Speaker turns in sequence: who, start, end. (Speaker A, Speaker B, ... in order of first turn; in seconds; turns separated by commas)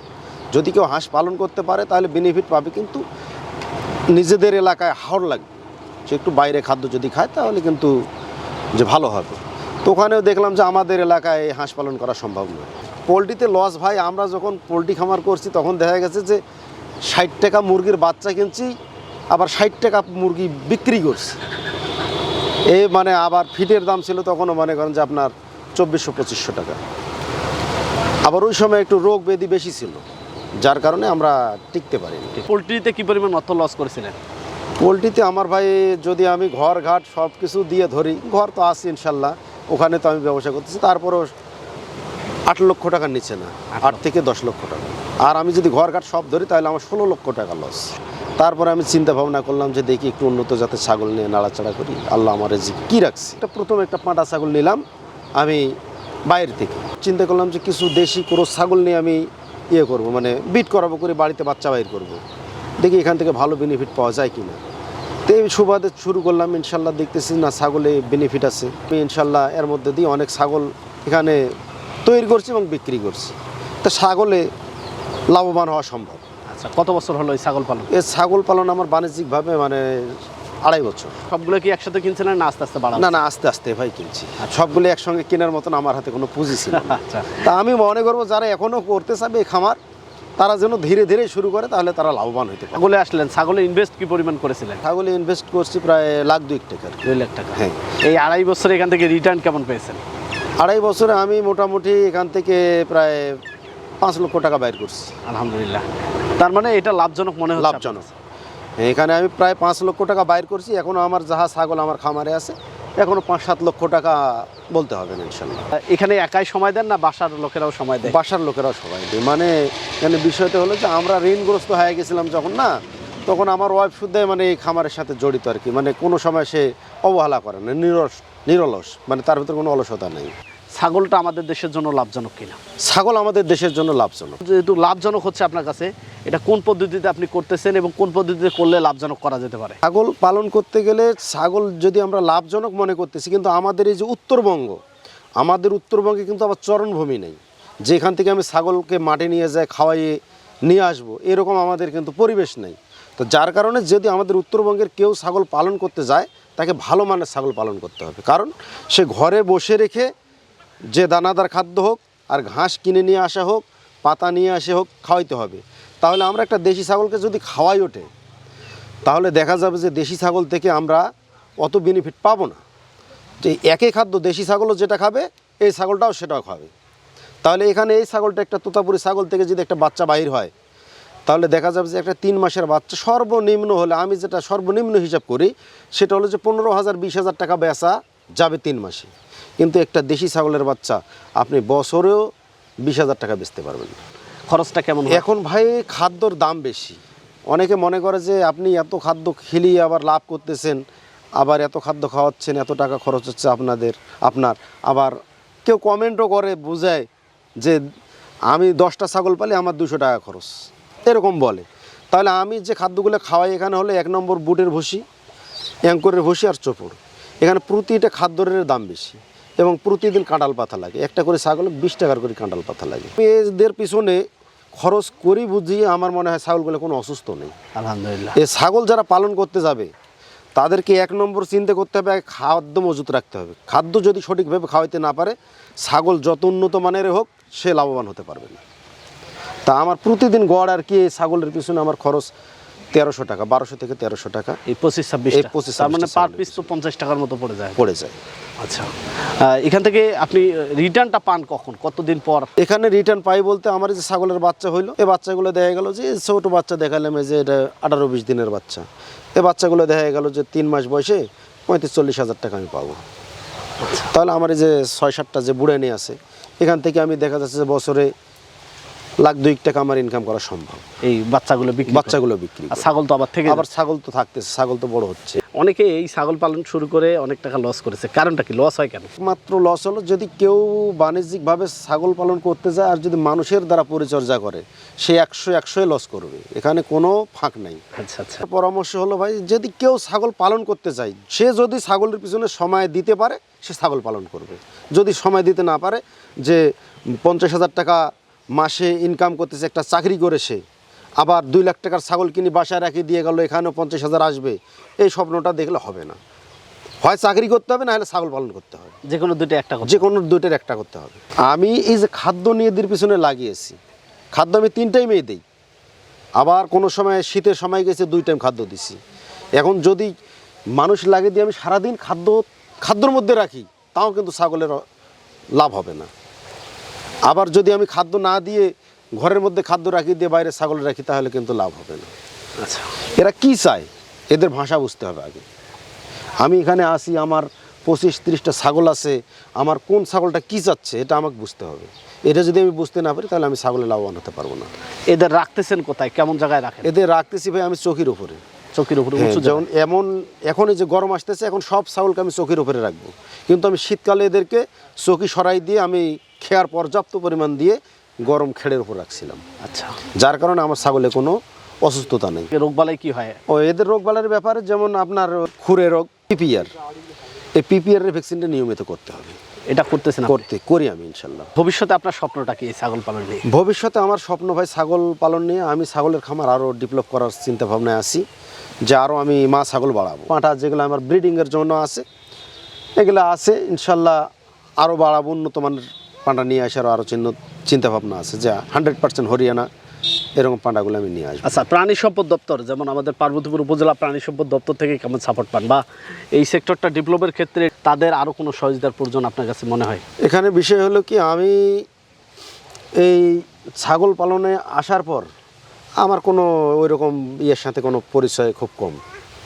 Speaker A: 0.5-3.0, Speaker A: 4.1-5.5, Speaker A: 6.1-8.0, Speaker A: 8.7-16.4, Speaker A: 17.1-18.7, Speaker A: 19.3-21.4, Speaker A: 22.7-26.8, Speaker A: 28.2-30.0, Speaker A: 30.6-32.4, Speaker B: 32.4-34.2, Speaker A: 34.8-41.3, Speaker A: 42.5-54.8, Speaker B: 43.8-44.0, Speaker A: 55.4-62.2, Speaker A: 62.8-64.6, Speaker A: 65.3-71.4, Speaker A: 72.0-74.5, Speaker A: 75.3-76.2, Speaker B: 76.5-77.9, Speaker A: 77.9-81.2, Speaker B: 81.3-83.2, Speaker A: 82.9-89.8, Speaker B: 86.7-87.5, Speaker A: 90.4-92.8, Speaker B: 92.7-94.8, Speaker A: 94.8-97.8, Speaker B: 97.0-100.0, Speaker A: 100.6-103.4, Speaker A: 104.0-105.1, Speaker B: 105.2-105.8, Speaker B: 106.4-108.1, Speaker A: 107.5-108.0, Speaker A: 108.8-115.7, Speaker B: 115.7-118.2, Speaker A: 118.0-122.7, Speaker A: 123.3-130.3, Speaker B: 130.7-132.6, Speaker A: 132.8-134.4, Speaker B: 134.4-139.8, Speaker A: 139.8-144.8, Speaker A: 145.4-160.1, Speaker A: 160.9-168.1, Speaker A: 169.1-171.1, Speaker A: 171.6-172.6, Speaker A: 173.4-176.7, Speaker A: 177.4-180.5, Speaker A: 181.2-192.2, Speaker A: 192.8-194.0, Speaker B: 194.5-195.2, Speaker A: 195.1-197.0, Speaker A: 197.5-200.8, Speaker A: 201.4-205.1, Speaker A: 205.7-207.1, Speaker A: 208.5-210.5, Speaker A: 211.1-215.0, Speaker A: 215.9-224.2, Speaker A: 224.8-227.5, Speaker B: 227.7-228.4, Speaker A: 228.3-229.9, Speaker A: 230.6-238.6, Speaker A: 239.7-242.3, Speaker A: 242.9-244.6, Speaker B: 244.7-247.8, Speaker A: 245.3-246.7, Speaker A: 247.8-248.2, Speaker B: 248.6-252.5, Speaker A: 252.6-258.8, Speaker A: 259.4-263.0, Speaker B: 263.8-264.1, Speaker A: 264.0-268.1, Speaker A: 269.2-270.8, Speaker B: 271.0-272.2, Speaker A: 271.9-272.9, Speaker B: 272.7-273.7, Speaker A: 273.4-275.4, Speaker B: 275.4-279.1, Speaker A: 279.1-287.8, Speaker B: 287.9-288.4, Speaker A: 288.4-296.6, Speaker A: 297.2-300.6, Speaker A: 301.2-306.2, Speaker A: 307.0-309.0, Speaker B: 309.1-310.1, Speaker A: 309.8-313.8, Speaker A: 314.3-315.4, Speaker A: 316.4-319.0, Speaker A: 319.6-320.1, Speaker A: 320.8-324.8, Speaker A: 325.6-326.1, Speaker A: 327.3-332.1, Speaker B: 332.6-332.9, Speaker A: 333.2-335.4, Speaker A: 336.4-344.7, Speaker B: 345.1-346.9, Speaker A: 346.8-348.4, Speaker B: 348.7-349.6, Speaker A: 349.1-359.4, Speaker B: 359.6-360.0, Speaker A: 360.2-362.5, Speaker B: 362.5-363.4, Speaker A: 363.5-366.7, Speaker A: 367.6-369.4, Speaker B: 369.7-370.4, Speaker A: 370.2-371.5, Speaker B: 371.6-373.4, Speaker A: 373.4-378.2, Speaker A: 378.9-382.0, Speaker A: 383.0-384.2, Speaker A: 384.8-389.7, Speaker A: 390.4-391.6, Speaker B: 391.4-400.0, Speaker A: 400.2-401.9, Speaker A: 403.0-405.3, Speaker A: 406.0-409.0